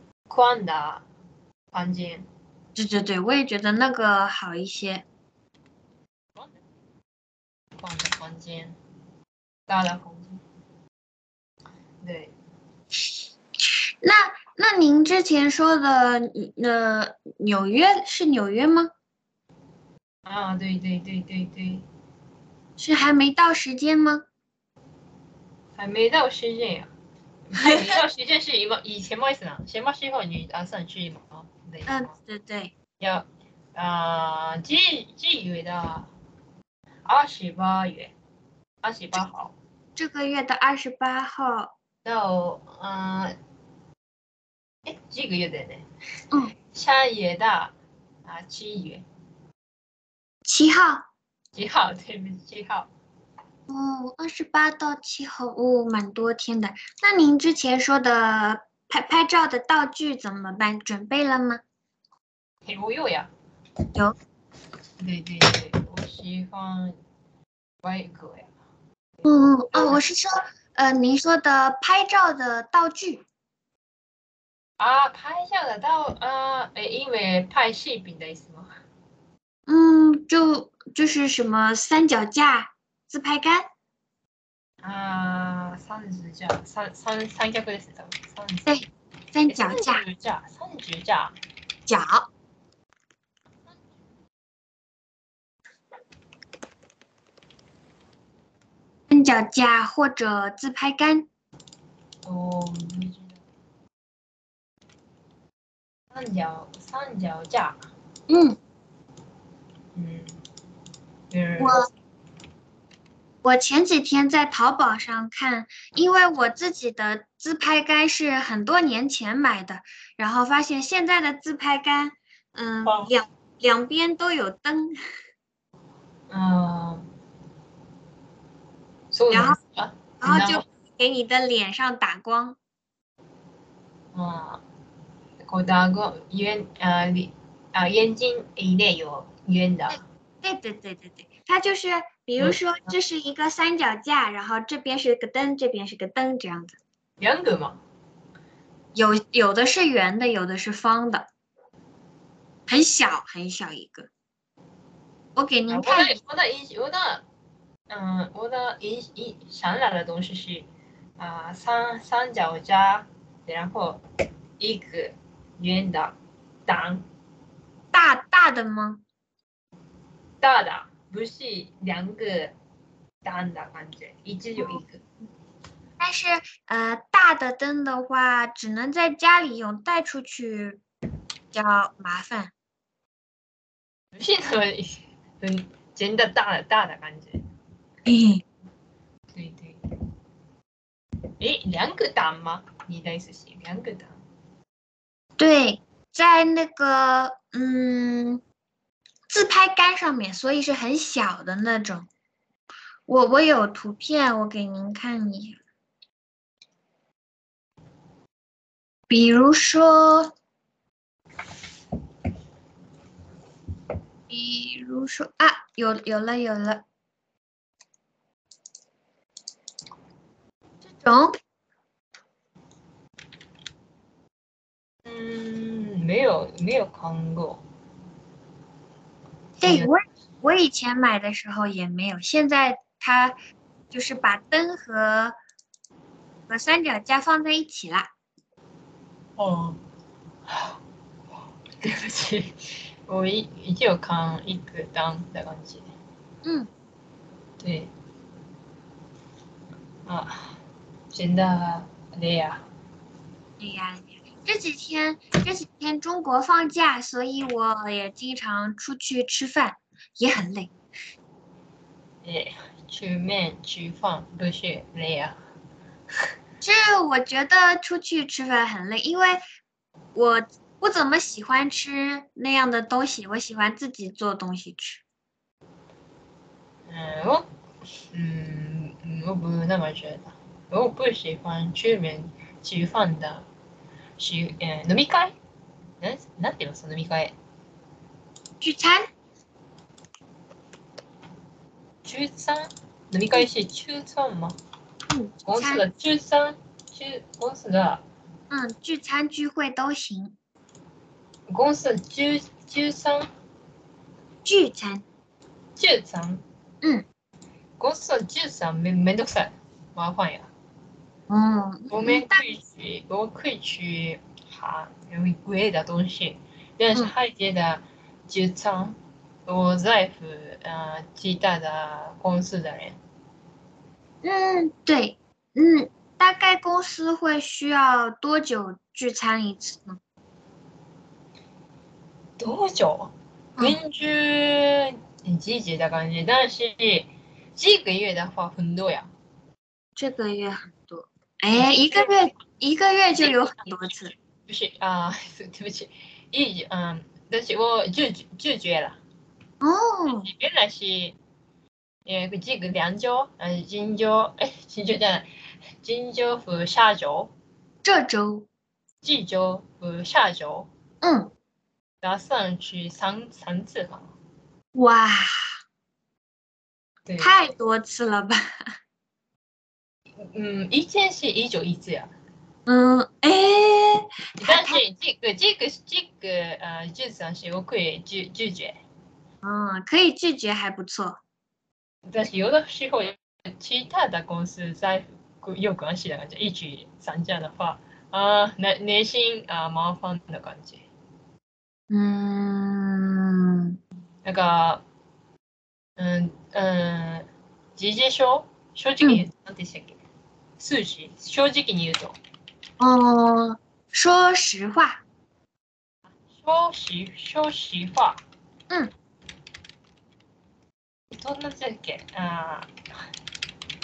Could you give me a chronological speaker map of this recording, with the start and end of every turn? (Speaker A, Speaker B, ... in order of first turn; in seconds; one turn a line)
Speaker A: 0.3-1.0
Speaker A: 1.7-2.3
Speaker B: 2.7-5.0
Speaker A: 6.3-6.6
Speaker A: 7.8-8.8
Speaker A: 9.7-10.4
Speaker A: 12.0-12.3
Speaker B: 14.0-18.9
Speaker A: 20.2-21.8
Speaker B: 22.8-24.2
Speaker A: 25.8-26.9
Speaker A: 27.5-32.1
Speaker B: 27.6-28.0
Speaker B: 31.9-32.7
Speaker A: 33.0-36.1
Speaker A: 37.0-38.1
Speaker A: 38.8-39.5
Speaker B: 40.0-41.7
Speaker A: 42.0-43.3
Speaker A: 44.8-45.9
Speaker A: 46.5-47.7
Speaker A: 48.2-49.0
Speaker B: 50.5-51.0
Speaker A: 51.5-52.9
Speaker B: 53.7-61.6
Speaker A: 62.6-63.3
Speaker A: 65.0-67.0
Speaker A: 67.8-68.5
Speaker A: 69.2-70.0
Speaker B: 69.2-73.2
Speaker A: 74.8-78.8
Speaker B: 79.7-83.7
Speaker A: 84.8-88.7
Speaker B: 88.7-90.0
Speaker A: 89.5-91.3
Speaker B: 91.9-92.3
Speaker B: 99.1-101.3
Speaker A: 102.2-103.4
Speaker A: 106.1-107.8
Speaker B: 108.3-108.6
Speaker A: 109.9-110.3
Speaker A: 111.3-111.8
Speaker B: 111.6-111.9
Speaker B: 113.4-124.9
Speaker A: 122.8-123.1
Speaker A: 126.3-127.0
Speaker A: 129.1-130.6
Speaker B: 129.3-129.6
Speaker B: 130.2-132.6
Speaker A: 134.1-134.6
Speaker A: 135.4-140.0
Speaker B: 140.4-146.8
Speaker A: 147.2-147.8
Speaker B: 148.9-151.3
Speaker B: 152.7-154.1
Speaker B: 155.3-156.2
Speaker A: 155.7-157.2
Speaker A: 157.9-160.7
Speaker A: 161.2-164.0
Speaker A: 164.6-166.2
Speaker A: 166.7-167.0
Speaker B: 167.9-169.0
Speaker A: 170.4-172.5
Speaker A: 173.2-175.0
Speaker B: 176.0-180.8
Speaker B: 181.5-182.5
Speaker A: 184.1-187.4
Speaker B: 188.1-188.4
Speaker A: 189.3-189.8
Speaker A: 191.4-194.1
Speaker B: 195.4-198.4
Speaker B: 199.3-202.1
Speaker B: 203.1-205.6
Speaker B: 209.1-210.3
Speaker B: 214.3-216.8
Speaker B: 220.8-221.3
Speaker A: 225.0-227.6
Speaker B: 229.6-233.3
Speaker A: 229.6-229.9
Speaker B: 233.9-235.3
Speaker B: 236.5-238.1
Speaker A: 239.4-239.8
Speaker A: 240.5-240.8
Speaker A: 241.8-245.9
Speaker A: 247.6-247.9
Speaker A: 250.1-250.6
Speaker A: 251.1-252.6
Speaker B: 253.6-260.7
Speaker A: 262.2-265.4
Speaker B: 266.6-269.4
Speaker B: 270.1-275.0
Speaker A: 276.9-277.5
Speaker A: 278.1-283.4
Speaker A: 284.2-285.3
Speaker A: 286.0-287.3
Speaker B: 288.6-289.1
Speaker A: 292.0-294.6
Speaker B: 295.1-295.8
Speaker A: 295.4-298.0
Speaker B: 298.5-300.3
Speaker A: 301.5-303.3
Speaker B: 304.4-305.0
Speaker A: 305.8-306.4
Speaker A: 307.8-310.5
Speaker B: 311.3-312.4
Speaker A: 311.9-323.0
Speaker B: 324.2-330.0
Speaker A: 332.4-339.1
Speaker B: 340.0-344.1
Speaker A: 341.5-342.2
Speaker A: 343.1-349.0
Speaker B: 349.6-350.3
Speaker A: 350.1-351.2
Speaker A: 352.1-355.3
Speaker A: 355.8-357.3
Speaker B: 357.8-358.5
Speaker A: 359.0-360.7
Speaker B: 361.0-361.3
Speaker A: 362.0-364.1
Speaker B: 364.7-365.5
Speaker A: 367.1-367.3
Speaker B: 367.2-368.7
Speaker A: 370.2-372.1
Speaker B: 372.7-374.8
Speaker A: 374.4-378.8
Speaker B: 379.4-381.2
Speaker A: 382.1-390.8
Speaker B: 391.9-393.8
Speaker A: 394.2-394.8
Speaker A: 396.0-400.0
Speaker A: 400.6-402.2
Speaker B: 402.8-405.0
Speaker A: 406.2-408.2
Speaker A: 411.1-412.7